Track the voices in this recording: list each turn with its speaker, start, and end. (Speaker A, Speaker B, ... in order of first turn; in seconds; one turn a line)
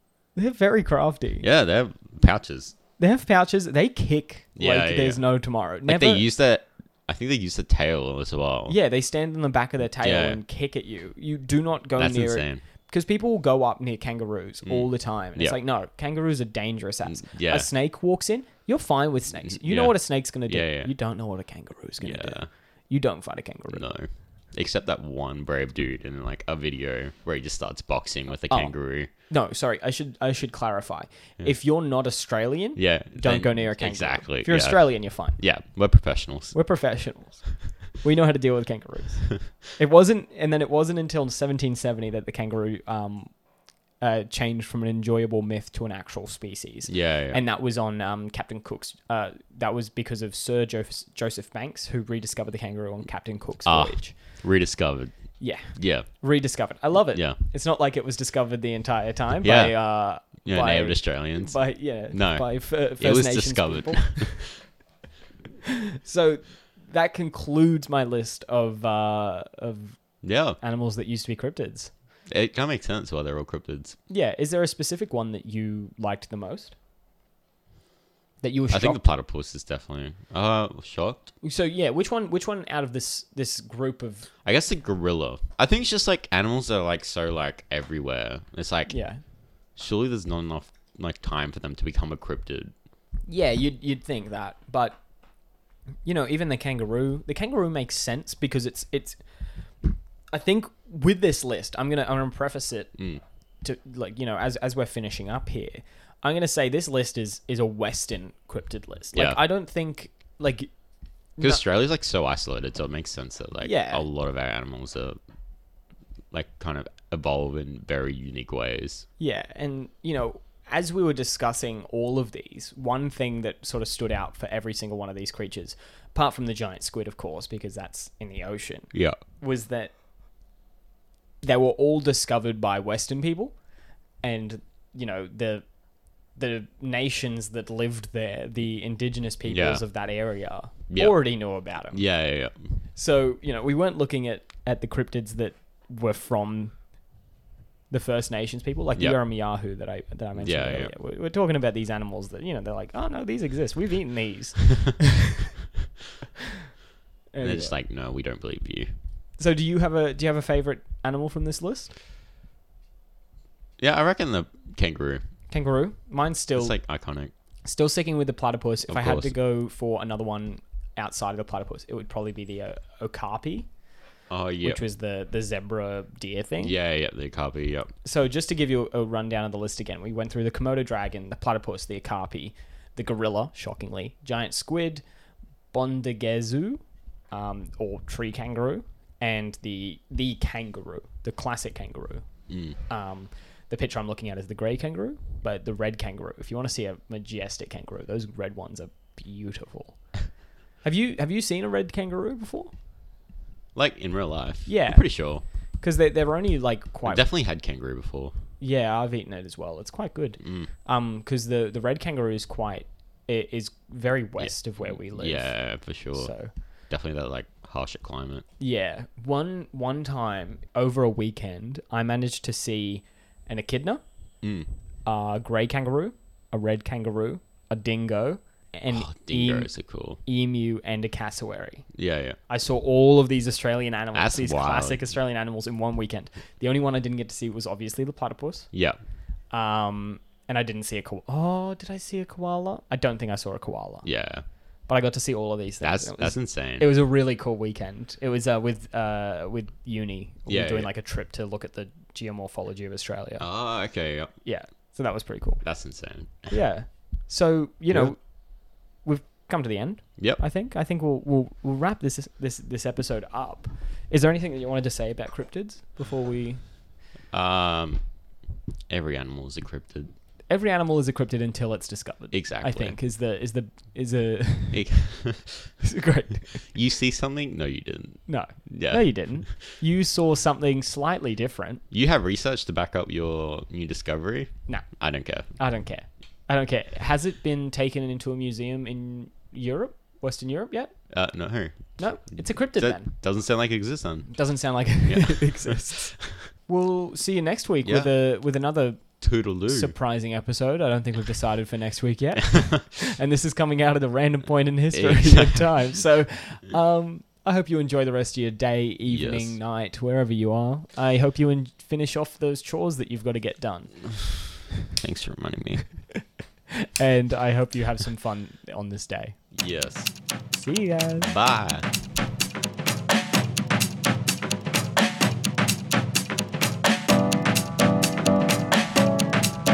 Speaker A: 0.3-1.5
Speaker B: 1.4-2.8
Speaker A: 3.0-6.2
Speaker B: 4.6-5.2
Speaker B: 5.8-8.8
Speaker A: 8.7-23.9
Speaker B: 10.0-10.4
Speaker B: 12.0-12.6
Speaker B: 14.7-15.6
Speaker B: 17.0-17.7
Speaker B: 19.4-20.9
Speaker B: 22.0-22.5
Speaker B: 23.7-29.1
Speaker A: 29.3-35.4
Speaker B: 32.8-36.5
Speaker A: 36.5-43.3
Speaker A: 44.0-54.2
Speaker B: 46.9-47.4
Speaker B: 53.6-55.1
Speaker A: 55.4-64.5
Speaker B: 55.7-56.1
Speaker B: 59.4-59.8
Speaker B: 60.5-61.6
Speaker B: 62.1-62.5
Speaker B: 63.0-64.6
Speaker A: 66.0-70.0
Speaker B: 70.2-70.6
Speaker A: 70.6-71.9
Speaker B: 72.3-74.0
Speaker A: 74.1-76.8
Speaker A: 78.4-79.0
Speaker B: 78.7-81.3
Speaker A: 81.4-84.3
Speaker B: 84.4-89.0
Speaker A: 88.9-89.2
Speaker B: 89.8-92.7
Speaker A: 93.3-95.0
Speaker A: 96.0-99.2
Speaker A: 100.3-103.0
Speaker A: 103.6-110.7
Speaker B: 109.1-109.4
Speaker A: 111.4-111.7
Speaker B: 111.4-115.2
Speaker A: 113.6-114.0
Speaker B: 116.3-119.1
Speaker A: 119.2-129.9
Speaker A: 131.4-133.6
Speaker A: 134.2-135.6
Speaker A: 136.4-142.0
Speaker B: 139.5-139.8
Speaker B: 140.9-141.2
Speaker B: 141.9-142.8
Speaker A: 143.0-146.8
Speaker A: 147.9-155.5
Speaker B: 150.4-150.9
Speaker A: 157.3-157.8
Speaker B: 157.4-158.9
Speaker A: 159.4-161.9
Speaker B: 163.8-165.2
Speaker A: 165.5-166.8
Speaker B: 166.6-167.3
Speaker A: 167.7-173.7
Speaker B: 168.9-169.3
Speaker B: 174.3-174.8
Speaker A: 174.6-176.8
Speaker B: 176.6-177.9
Speaker A: 178.0-185.0
Speaker A: 185.7-192.3
Speaker B: 192.5-192.8
Speaker A: 192.9-200.0
Speaker A: 200.8-202.7
Speaker B: 203.8-205.4
Speaker A: 204.7-205.1
Speaker A: 205.8-207.3
Speaker B: 207.1-208.3
Speaker A: 208.6-215.6
Speaker B: 210.4-210.7
Speaker B: 214.4-216.3
Speaker A: 216.1-216.5
Speaker B: 216.9-218.4
Speaker A: 218.6-224.0
Speaker B: 224.4-224.7
Speaker A: 225.1-229.7
Speaker B: 228.9-230.2
Speaker A: 230.2-231.9
Speaker B: 231.9-232.4
Speaker A: 232.5-238.7
Speaker B: 234.2-235.1
Speaker B: 238.7-239.0
Speaker A: 239.5-244.1
Speaker B: 244.0-244.4
Speaker A: 244.9-253.5
Speaker B: 245.8-246.9
Speaker B: 250.5-250.9
Speaker B: 253.4-254.3
Speaker A: 254.4-255.6
Speaker B: 255.6-256.6
Speaker A: 256.5-258.2
Speaker A: 259.0-266.6
Speaker B: 267.3-268.0
Speaker B: 268.9-270.1
Speaker A: 270.5-274.9
Speaker B: 272.3-273.0
Speaker B: 274.7-275.7
Speaker A: 275.8-276.6
Speaker B: 276.6-279.5
Speaker A: 278.3-281.8
Speaker B: 281.9-285.5
Speaker A: 285.6-290.9
Speaker B: 291.1-294.3
Speaker A: 292.0-293.1
Speaker A: 294.3-314.1
Speaker B: 295.0-296.5
Speaker B: 297.8-298.1
Speaker B: 299.2-299.9
Speaker B: 302.4-302.9
Speaker B: 304.9-305.9
Speaker B: 309.1-309.6
Speaker B: 314.9-315.9
Speaker A: 316.7-319.4
Speaker B: 319.5-320.1
Speaker A: 320.5-321.3
Speaker B: 321.2-321.9